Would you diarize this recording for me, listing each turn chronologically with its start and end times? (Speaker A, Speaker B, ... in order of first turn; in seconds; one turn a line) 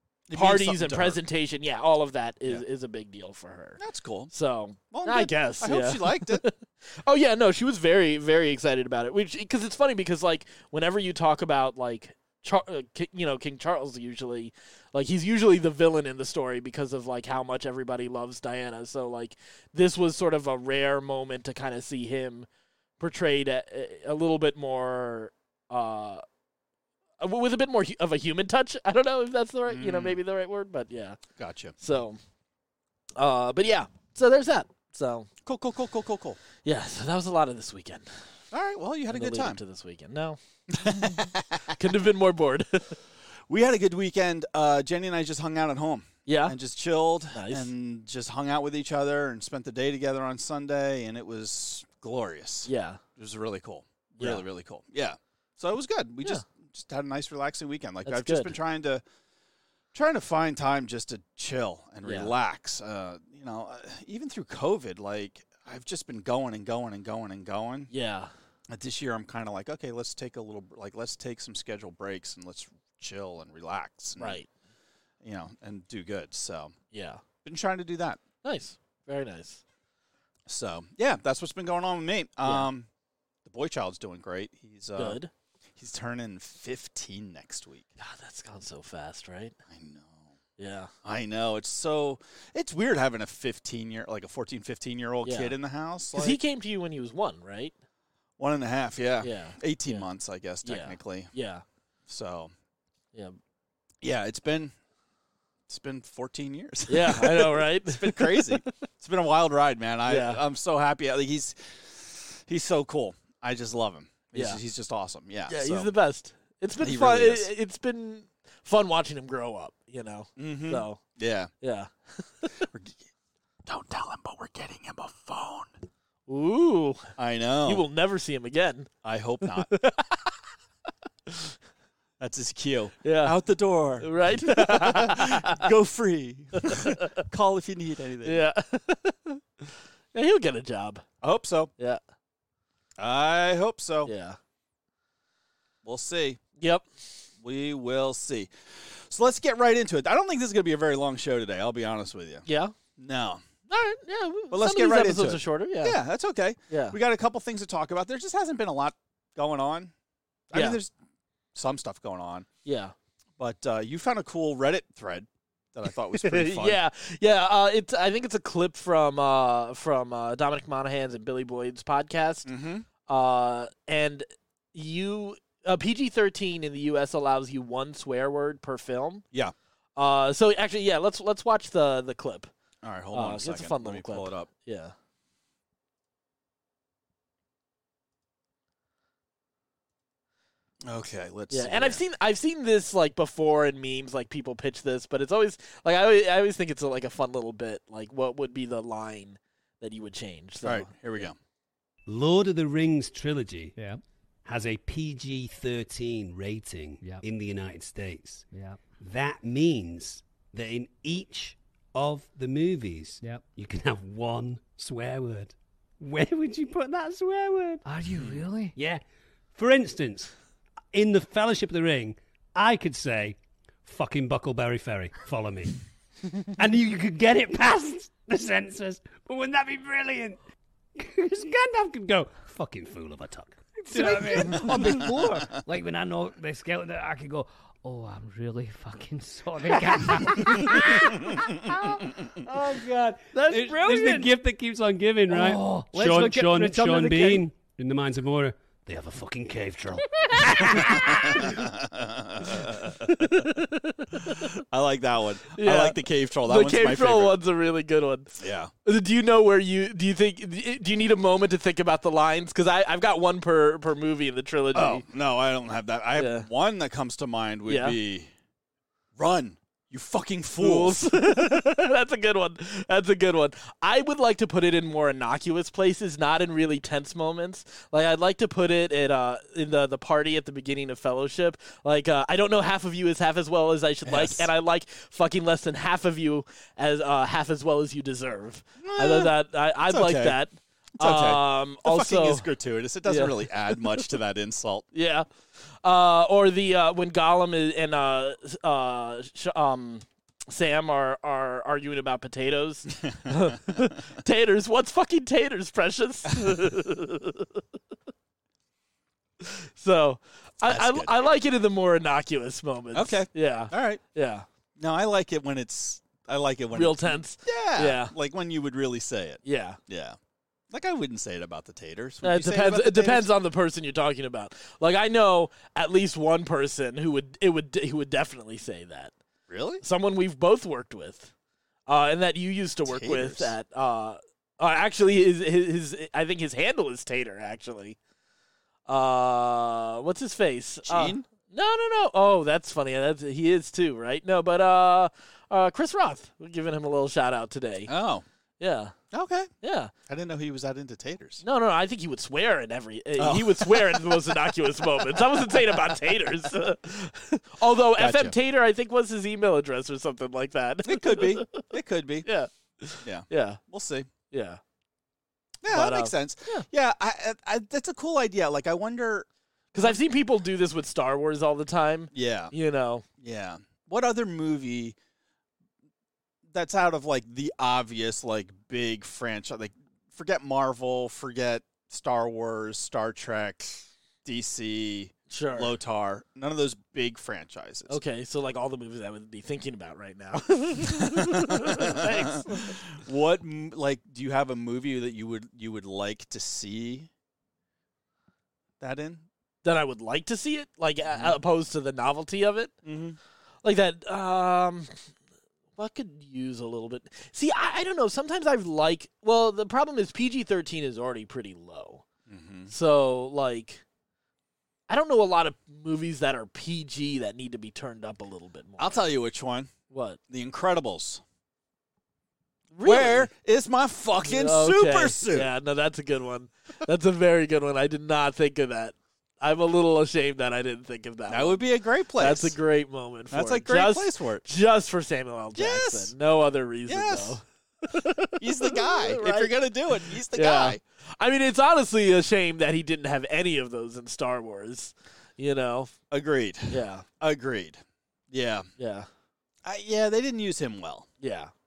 Speaker A: 0.3-1.2
Speaker B: 0.3-3.8
Speaker A: 3.8-4.3
Speaker B: 4.3-22.5
Speaker A: 4.9-6.4
Speaker B: 23.0-26.2
Speaker B: 27.2-31.2
Speaker A: 29.7-30.2
Speaker A: 31.4-31.7
Speaker B: 31.8-32.2
Speaker B: 33.2-35.3
Speaker A: 35.4-36.4
Speaker B: 36.6-38.1
Speaker A: 38.5-39.6
Speaker B: 39.1-43.0
Speaker A: 40.7-41.8
Speaker A: 43.5-59.0
Speaker B: 46.2-46.5
Speaker B: 47.3-47.7
Speaker B: 52.6-53.0
Speaker B: 58.0-58.5
Speaker A: 59.9-67.9
Speaker B: 62.0-62.3
Speaker B: 67.9-68.3
Speaker A: 68.7-74.4
Speaker B: 74.2-74.5
Speaker A: 75.2-76.7
Speaker B: 76.9-77.2
Speaker A: 77.4-78.2
Speaker B: 78.4-79.6
Speaker A: 80.5-82.9
Speaker A: 83.4-85.2
Speaker B: 85.0-85.3
Speaker A: 85.8-87.8
Speaker B: 88.0-89.5
Speaker A: 89.7-90.3
Speaker B: 90.6-90.9
Speaker A: 91.0-96.4
Speaker B: 95.2-95.5
Speaker B: 96.1-97.7
Speaker A: 98.4-101.3
Speaker B: 99.2-100.1
Speaker B: 100.6-101.6
Speaker A: 102.1-102.5
Speaker A: 104.0-104.7
Speaker A: 105.7-115.9
Speaker B: 106.9-108.6
Speaker B: 110.1-110.4
Speaker B: 114.3-114.6
Speaker B: 115.5-121.0
Speaker A: 116.8-117.5
Speaker A: 120.4-121.5
Speaker B: 121.6-122.7
Speaker A: 122.7-123.0
Speaker A: 123.7-125.7
Speaker B: 126.3-127.1
Speaker A: 127.2-127.8
Speaker B: 127.6-128.9
Speaker A: 129.0-129.7
Speaker B: 129.4-130.3
Speaker B: 131.3-131.5
Speaker A: 132.2-138.4
Speaker B: 133.0-133.4
Speaker B: 134.0-135.7
Speaker B: 136.6-137.2
Speaker B: 138.2-141.0
Speaker A: 141.2-141.7
Speaker A: 143.0-144.1
Speaker B: 144.1-144.4
Speaker A: 145.8-146.4
Speaker B: 146.6-146.8
Speaker A: 147.4-152.4
Speaker B: 152.5-152.8
Speaker A: 153.0-153.4
Speaker B: 153.7-156.0
Speaker A: 154.5-159.9
Speaker B: 156.7-156.9
Speaker A: 160.5-160.9
Speaker B: 160.5-160.8
Speaker A: 161.5-162.4
Speaker B: 162.6-162.9
Speaker A: 163.4-166.8
Speaker B: 166.2-172.5
Speaker A: 172.4-172.8
Speaker B: 173.1-179.2
Speaker B: 180.0-182.5
Speaker A: 182.8-184.5
Speaker B: 183.1-184.9
Speaker A: 190.8-192.0
Speaker B: 191.5-201.3
Speaker A: 200.6-201.3
Speaker C: 202.1-203.7
Speaker C: 204.4-217.8
Speaker D: 208.5-208.8
Speaker D: 217.8-218.7
Speaker A: 218.1-218.5
Speaker C: 218.7-219.0
Speaker C: 219.5-220.3
Speaker C: 220.9-225.8
Speaker C: 226.5-230.4
Speaker C: 230.9-235.5
Speaker D: 233.9-244.3
Speaker A: 234.8-235.1
Speaker C: 239.7-251.6
Speaker D: 245.3-247.4
Speaker D: 250.4-251.0
Speaker A: 250.6-253.4
Speaker B: 252.9-254.5
Speaker A: 254.2-257.4
Speaker B: 255.5-258.3
Speaker A: 258.4-258.7
Speaker B: 258.8-265.0
Speaker A: 264.7-268.3
Speaker B: 266.1-266.5
Speaker B: 267.7-267.9
Speaker A: 269.1-271.1
Speaker B: 270.6-292.5
Speaker A: 284.1-284.5
Speaker A: 288.8-289.3
Speaker A: 289.9-290.4
Speaker A: 291.0-294.9
Speaker B: 293.0-294.1
Speaker B: 294.9-295.3
Speaker B: 295.8-307.6
Speaker A: 303.0-303.9
Speaker B: 309.4-314.4
Speaker A: 310.7-311.1
Speaker A: 312.9-314.0
Speaker A: 314.8-320.2
Speaker B: 316.7-318.1
Speaker B: 319.4-319.8
Speaker A: 320.7-323.3
Speaker B: 322.2-329.1
Speaker A: 329.5-329.8
Speaker B: 329.8-331.3
Speaker B: 331.9-338.0
Speaker A: 332.9-333.5
Speaker B: 338.9-347.9
Speaker A: 340.8-341.2
Speaker A: 347.9-348.2
Speaker B: 348.6-348.9
Speaker A: 349.1-349.5
Speaker B: 349.6-349.9
Speaker A: 350.1-351.4
Speaker B: 351.4-361.7
Speaker A: 353.2-356.5
Speaker A: 357.9-358.4
Speaker A: 360.8-362.3
Speaker B: 362.2-363.6
Speaker A: 363.0-364.1
Speaker B: 364.3-364.6
Speaker A: 365.6-370.0
Speaker B: 365.7-366.6
Speaker B: 369.7-373.0
Speaker A: 372.1-372.5
Speaker A: 373.2-374.9
Speaker A: 376.5-388.0
Speaker B: 385.3-385.7
Speaker B: 387.9-392.8
Speaker A: 390.8-397.1
Speaker A: 398.8-399.2
Speaker B: 399.6-402.7
Speaker A: 401.1-401.4
Speaker A: 402.8-403.2
Speaker B: 403.6-405.0
Speaker B: 405.8-412.0
Speaker A: 412.3-412.7
Speaker B: 412.7-413.8
Speaker B: 414.9-419.1
Speaker A: 418.8-419.7
Speaker B: 419.9-420.2
Speaker A: 420.3-421.2
Speaker B: 422.7-423.3
Speaker A: 422.8-425.5
Speaker B: 424.2-431.6
Speaker A: 431.3-432.6
Speaker B: 432.1-445.9
Speaker A: 433.3-434.4
Speaker A: 435.6-436.1
Speaker A: 436.9-437.4
Speaker A: 438.4-440.8
Speaker A: 446.1-448.6
Speaker B: 446.7-447.1
Speaker B: 448.8-449.1
Speaker A: 449.6-451.1
Speaker B: 451.2-451.5